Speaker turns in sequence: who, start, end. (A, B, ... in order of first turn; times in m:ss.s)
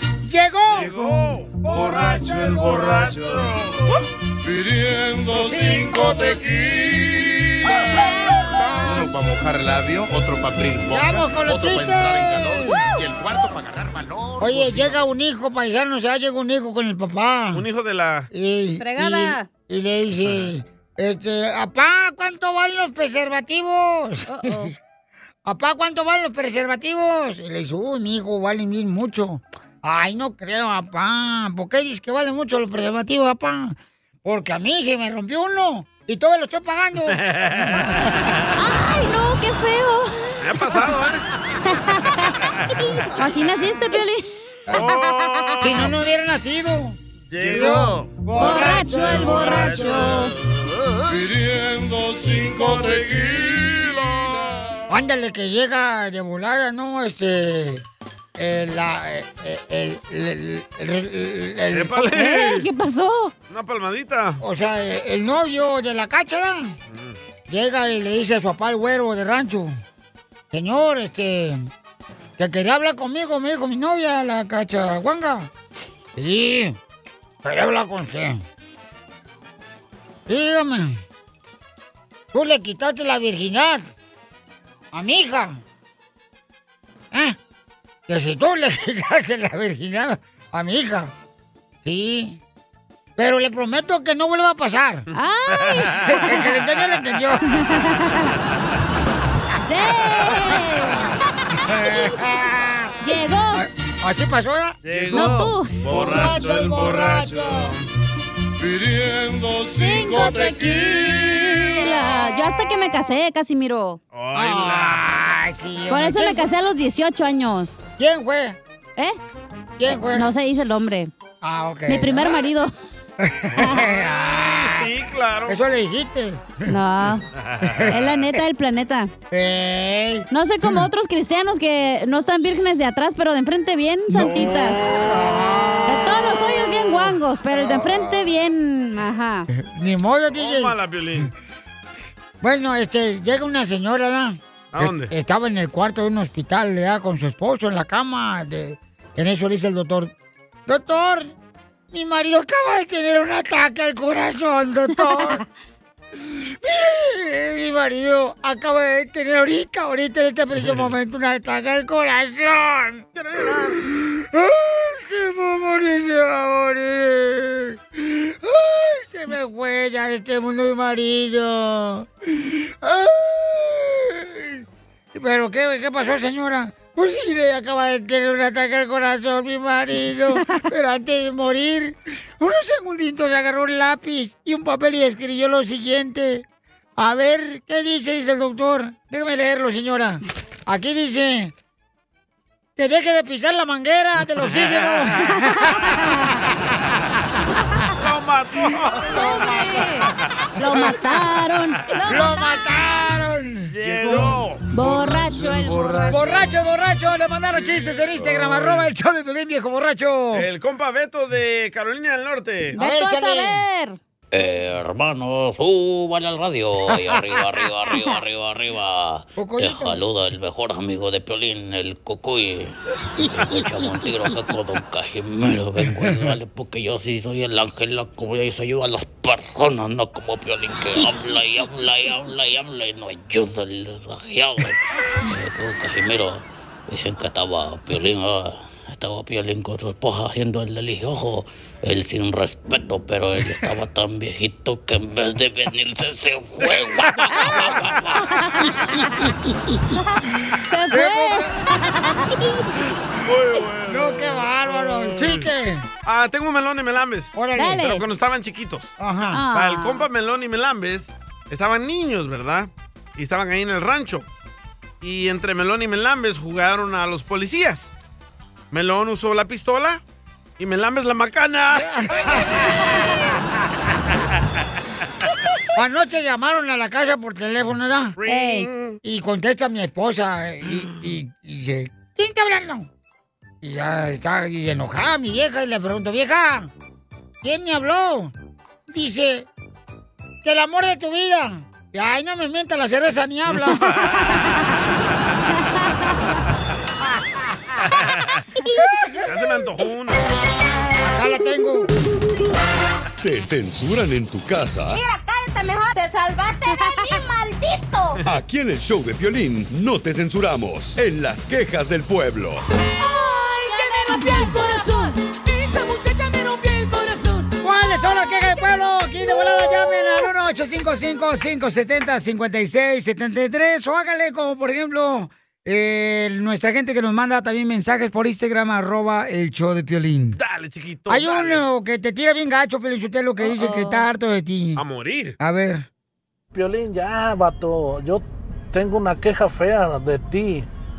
0:00.2-0:01.0 A
0:00.7-0:03.9 B
0:01.7-0:02.1 A
0:05.3-0:06.6 A
0:07.7-0:09.1 C
0:08.6-0:15.0 D
0:10.9-0:12.8 A
0:14.4-0:17.6 A
0:17.5-0:18.3 B
0:18.3-0:24.7 A
0:18.8-0:19.5 C
0:24.3-0:24.7 C
0:25.4-0:38.3 A
0:37.1-0:38.0 B
0:38.6-0:40.4 C
0:40.4-0:41.2 B
0:41.6-0:42.4 C
0:43.1-0:45.6 C
0:44.7-0:45.9 B
0:45.6-0:49.7 A
0:47.3-0:50.3 B
0:48.3-0:50.3 C
0:52.6-0:54.4 B
0:54.9-0:57.8 A
0:58.4-1:02.1 A
1:01.7-1:02.6 B
1:02.1-1:03.3 C
1:03.5-1:04.4 B
1:04.4-1:06.7 A
1:06.9-1:07.2 B
1:07.5-1:09.8 A
1:10.5-1:11.7 A
1:12.4-1:15.5 A
1:16.2-1:16.8 A
1:17.4-1:18.4 A
1:20.3-1:21.0 A
1:22.3-1:23.9 A
1:24.9-1:25.6 A
1:28.1-1:31.1 A
1:31.8-1:32.4 A
1:33.2-1:35.0 A
1:35.1-1:36.4 C
1:35.7-1:36.1 B
1:36.1-1:37.4 A
1:37.5-1:38.3 C
1:39.6-1:41.1 C
1:41.6-1:43.0 A
1:43.0-1:43.6 C
1:43.5-1:47.8 A
1:44.8-1:47.8 B
1:45.1-1:45.8 C
1:49.7-1:54.0 C
1:54.1-1:55.0 B
1:54.3-1:56.5 A
1:55.9-1:57.8 C
1:58.0-1:58.6 A
1:59.8-2:00.3 A
2:00.1-2:01.1 C
2:01.4-2:02.4 A
2:01.9-2:02.7 C
2:03.2-2:04.9 A
2:03.5-2:05.6 B
2:05.5-2:06.7 A
2:06.7-2:07.2 C
2:07.4-2:07.9 B
2:07.6-2:08.4 A
2:07.9-2:09.1 C
2:09.3-2:10.8 A
2:10.3-2:14.9 C
2:14.1-2:18.2 A
2:15.8-2:19.5 C
2:19.5-2:20.7 A
2:20.4-2:21.3 B
2:22.4-2:30.1 A
2:24.7-2:25.1 B
2:30.7-2:31.3 A
2:31.9-2:35.4 A
2:36.2-2:54.6 A
2:55.1-3:06.4 A
3:07.0-3:11.5 A
3:12.8-3:16.9 A
3:14.5-3:15.1 B
3:15.4-3:16.3 C
3:17.9-3:19.6 B
3:19.1-3:22.6 C
3:19.1-3:19.8 A
3:22.1-3:23.7 A
3:23.7-3:24.6 B
3:24.7-3:26.4 C
3:26.1-3:30.5 A
3:28.4-3:28.8 B
3:30.3-3:32.8 B
3:32.7-3:33.6 A
3:32.8-3:34.0 C
3:34.3-4:08.1 E
3:37.0-3:37.4 A
3:39.4-3:40.0 A
3:43.2-3:44.3 A
4:06.6-4:07.1 B
4:07.4-4:09.1 C
4:08.8-4:09.8 A
4:10.2-4:12.2 C
4:10.9-4:11.6 A
4:13.1-4:15.5 B
4:13.9-4:15.9 A
4:16.0-4:18.9 B
4:17.3-4:17.8 A
4:17.6-4:18.0 C
4:19.0-4:19.4 A
4:19.3-4:20.0 C
4:19.5-4:24.2 B
4:25.0-4:27.9 B
4:28.7-4:30.0 B
4:30.6-4:32.3 B
4:31.7-4:33.2 A
4:35.7-4:38.1 A
4:38.2-4:39.0 B
4:38.2-4:38.7 C
4:39.0-4:42.9 A
4:43.6-4:46.7 A
4:47.4-4:48.3 A
4:48.9-4:49.5 A
4:50.4-4:53.9 A
4:55.8-4:56.1 C
4:57.9-4:58.4 B
4:59.3-5:00.3 B
5:01.0-5:01.9 A
5:03.2-5:05.0 F
5:04.9-5:08.2 G
5:08.2-5:12.6 F
5:13.0-5:17.5 H
5:13.6-5:14.7 C
5:17.6-5:30.4 A
5:30.4-5:31.6 B
5:31.1-5:34.8 A
5:33.5-5:34.0 C
5:34.8-5:35.3 B
5:35.4-5:35.8 A
5:36.5-5:40.7 I